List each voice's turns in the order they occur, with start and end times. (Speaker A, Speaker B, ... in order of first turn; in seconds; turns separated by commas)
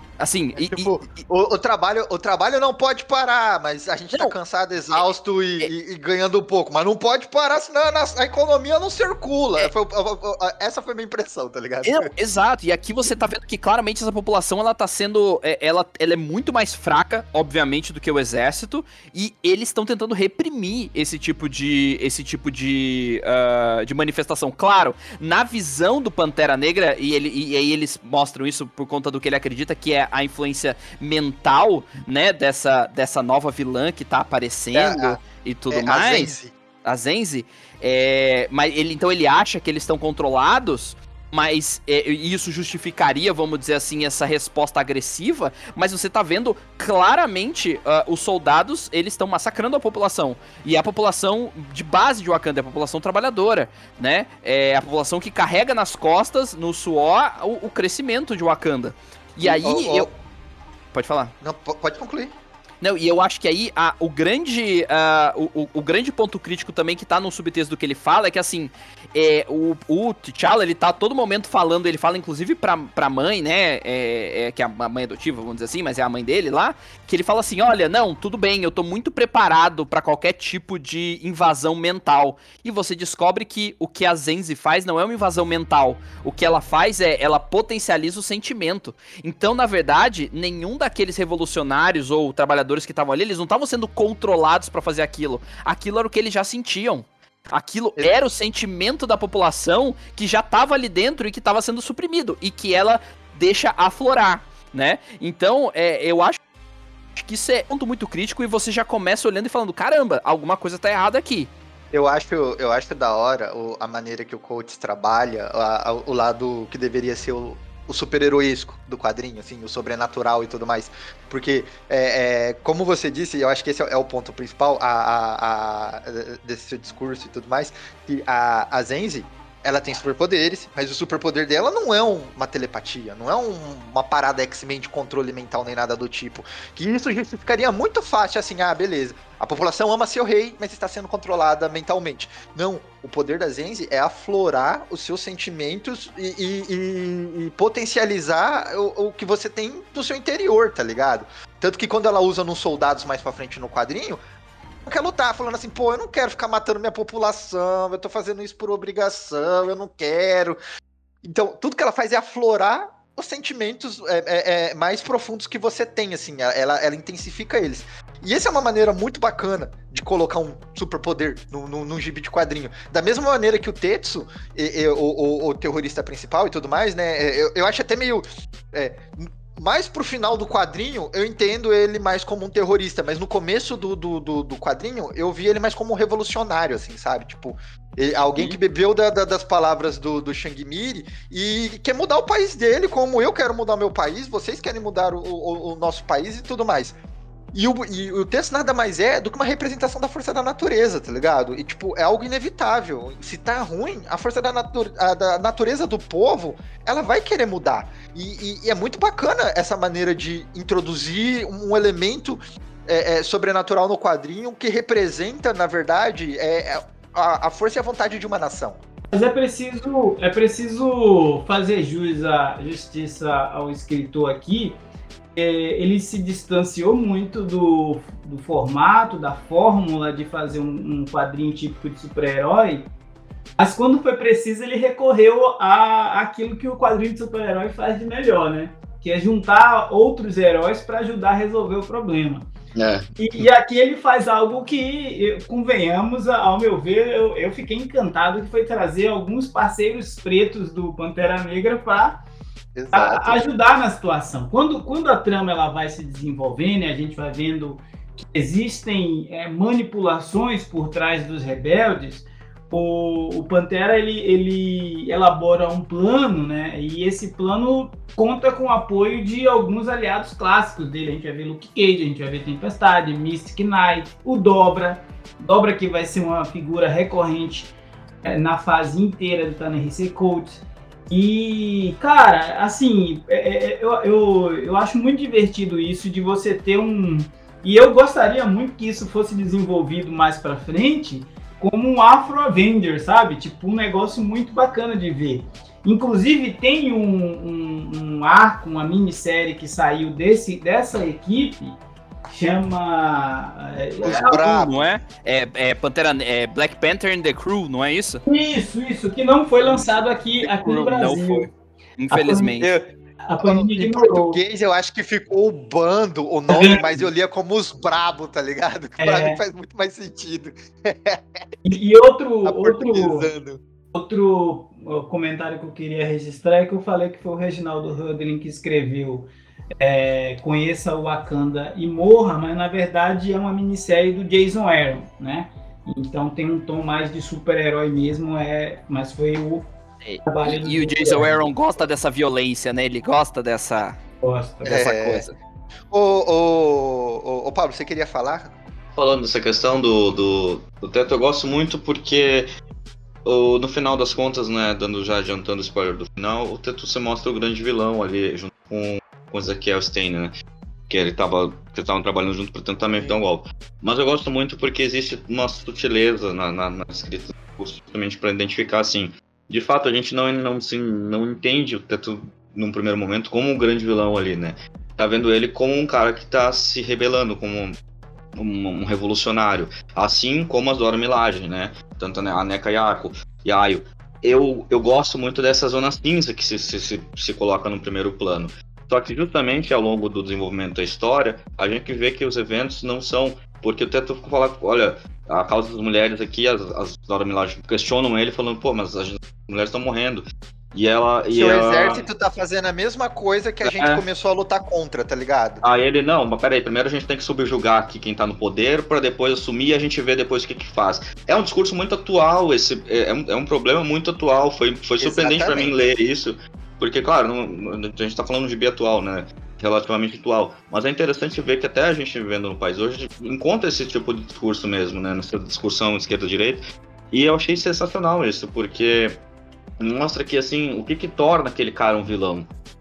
Speaker A: 0.2-1.2, Speaker B: 0.5-12.1, Speaker A: 11.8-60.1, Speaker B: 34.7-36.5, Speaker B: 59.4-60.1, Speaker A: 60.9-61.3, Speaker B: 61.4-62.3, Speaker A: 62.8-106.4, Speaker A: 107.2-111.5, Speaker B: 111.9-154.2, Speaker B: 154.8-160.6, Speaker B: 161.2-197.0, Speaker B: 197.5-218.8, Speaker C: 219.1-224.8, Speaker C: 225.3-232.9, Speaker C: 233.6-242.5, Speaker D: 242.7-243.5, Speaker C: 243.2-252.2, Speaker B: 252.7-253.4, Speaker C: 252.9-277.7, Speaker C: 278.2-304.6, Speaker B: 304.0-304.7, Speaker A: 304.0-308.2, Speaker C: 308.2-311.5, Speaker A: 310.4-312.7, Speaker C: 312.1-312.7, Speaker C: 313.2-314.4, Speaker B: 313.4-321.4, Speaker C: 316.5-317.1, Speaker C: 319.0-319.4, Speaker C: 321.6-323.3, Speaker B: 322.4-323.6, Speaker C: 323.9-329.3, Speaker C: 329.8-339.6, Speaker A: 340.0-344.0, Speaker C: 340.2-341.4, Speaker C: 344.2-344.8, Speaker B: 344.6-345.2, Speaker A: 344.7-345.3, Speaker B: 345.9-348.5, Speaker D: 348.9-352.5, Speaker D: 353.2-360.3, Speaker D: 360.9-377.8, Speaker D: 378.4-402.1, Speaker B: 401.3-405.6, Speaker D: 403.6-404.0, Speaker D: 405.6-429.2, Speaker B: 415.0-415.8, Speaker D: 429.8-432.5